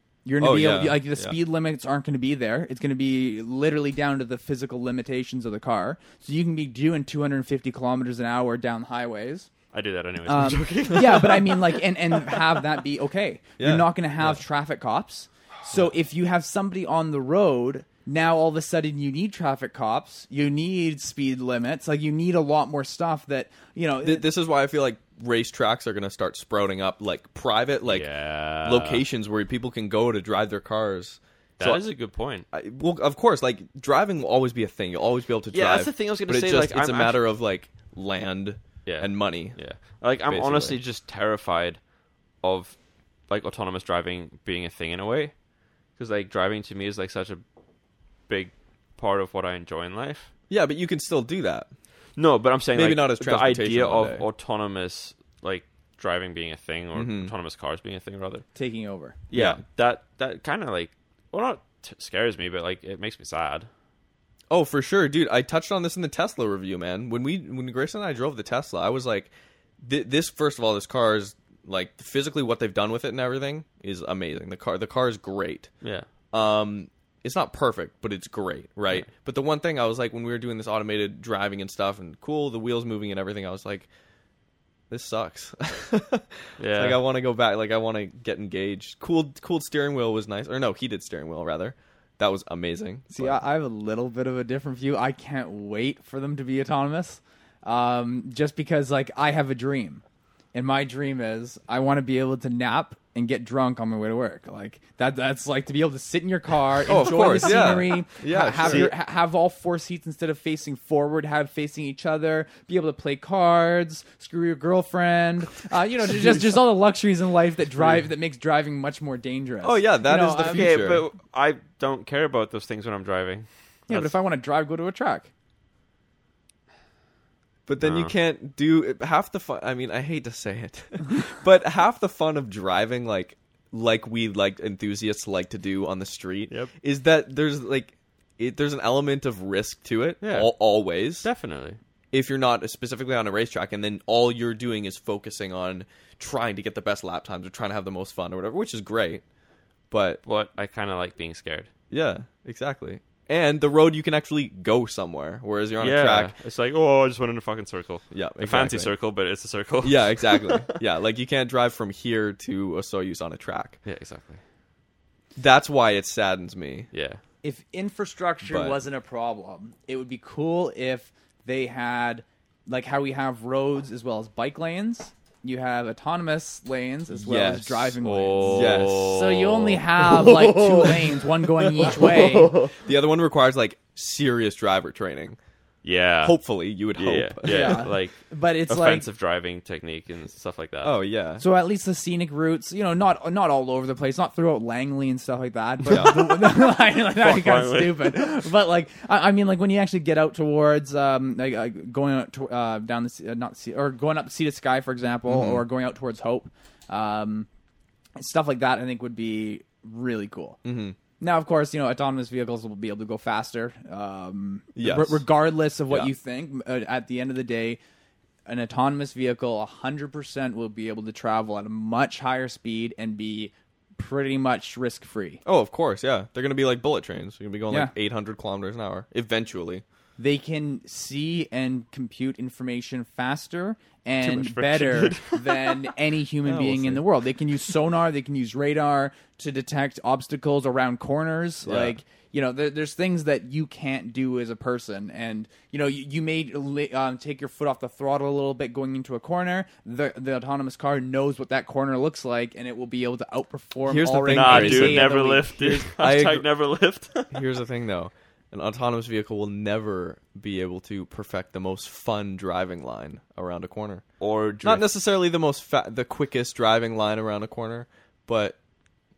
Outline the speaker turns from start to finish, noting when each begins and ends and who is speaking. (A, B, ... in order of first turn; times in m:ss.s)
0:00.2-0:09.5 A
0:00.4-0:01.4 B
0:09.7-0:12.6 C
0:10.2-0:24.3 A
0:13.6-0:13.8 B
0:24.0-0:28.1 B
0:27.9-0:29.0 C
0:28.6-0:31.8 B
0:31.6-0:32.4 C
0:32.5-0:39.6 B
0:35.5-0:37.2 C
0:38.8-0:41.8 C
0:40.3-0:40.8 B
0:42.4-0:42.8 C
0:43.3-0:45.3 C
0:46.0-0:47.4 C
0:48.3-0:50.3 C
0:50.5-0:51.7 B
0:52.2-0:58.4 C
0:52.7-0:54.2 B
0:56.9-0:57.3 B
0:58.6-0:59.2 A
0:59.3-1:03.7 C
0:59.3-0:59.6 B
1:04.5-1:15.7 B
1:16.3-1:23.9 B
1:24.9-1:33.4 B
1:26.6-1:27.0 C
1:33.1-1:40.0 A
1:40.5-2:00.8 A
1:46.9-1:48.9 B
1:48.6-1:48.9 C
1:59.6-2:01.0 B
2:00.4-2:04.1 C
2:03.9-2:05.3 A
2:07.7-2:21.3 B
2:07.8-2:08.1 C
2:20.2-2:20.5 C
2:21.2-2:21.8 C
2:22.1-2:29.2 B
2:29.9-2:30.2 B
2:30.2-2:31.7 C
2:31.9-2:36.3 B
2:35.8-2:40.8 C
2:38.1-2:38.9 B
2:39.8-2:43.8 B
2:43.8-2:44.4 C
2:45.4-2:46.9 B
2:46.9-2:47.2 C
2:47.4-3:02.6 A
2:48.4-2:48.8 B
2:57.1-2:58.0 B
2:58.0-3:01.0 C
2:58.5-2:59.2 B
3:01.9-3:02.7 C
3:01.9-3:05.4 B
3:05.8-3:06.4 C
3:06.2-3:07.9 B
3:06.9-3:11.0 C
3:07.4-3:09.0 A
3:10.8-3:11.4 B
3:11.4-3:27.5 A
3:15.9-3:16.2 B
3:16.5-3:18.4 C
3:25.3-3:25.6 B
3:28.2-3:30.6 A
3:30.6-3:31.0 B
3:31.2-3:37.8 A
3:34.8-3:35.2 B
3:38.4-3:45.4 A
3:45.4-3:49.8 B
3:50.2-4:15.9 A
3:54.2-3:55.9 C
3:56.4-3:57.0 B
4:01.6-4:01.9 B
4:13.9-4:15.1 B
4:14.3-4:17.4 C
4:15.8-4:16.5 B
4:17.3-4:24.0 B
4:24.2-4:24.8 C
4:24.6-4:28.6 B